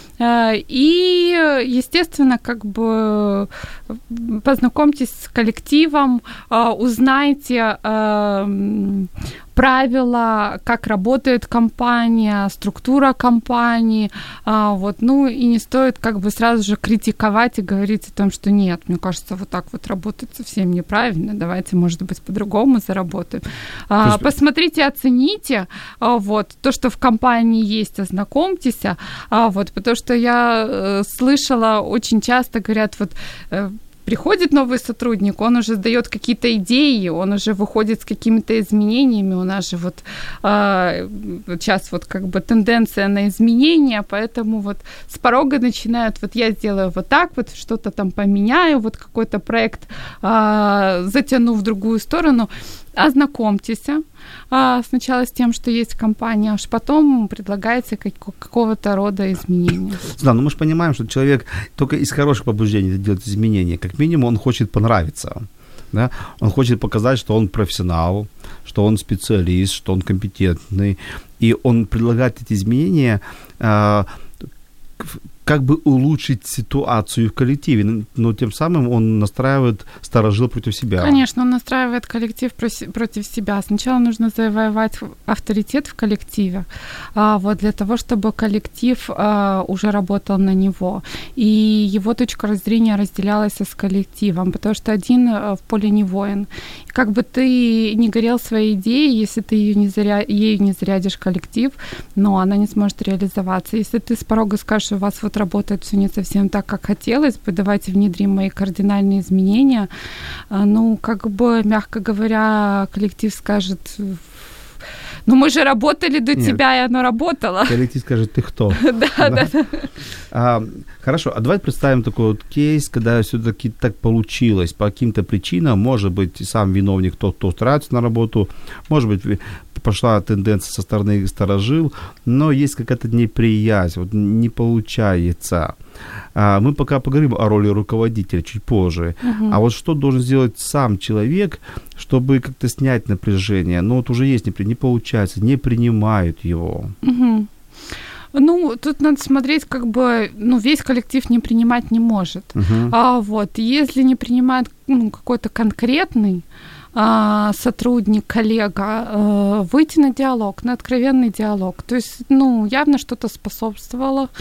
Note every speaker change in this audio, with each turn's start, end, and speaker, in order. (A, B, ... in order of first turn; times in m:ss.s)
0:00.2-1:00.0 A
1:00.1-1:14.1 B
1:15.0-1:21.2 B
1:21.0-1:49.9 A
1:50.5-1:54.2 A
1:55.2-1:57.8 A
1:56.3-1:56.6 B
1:57.7-1:59.5 B
1:58.7-1:59.9 A
2:00.3-2:15.8 B
2:16.3-2:26.9 B
2:19.2-2:19.6 A
2:27.0-2:27.5 A
2:28.3-2:44.3 A
2:32.5-2:32.9 B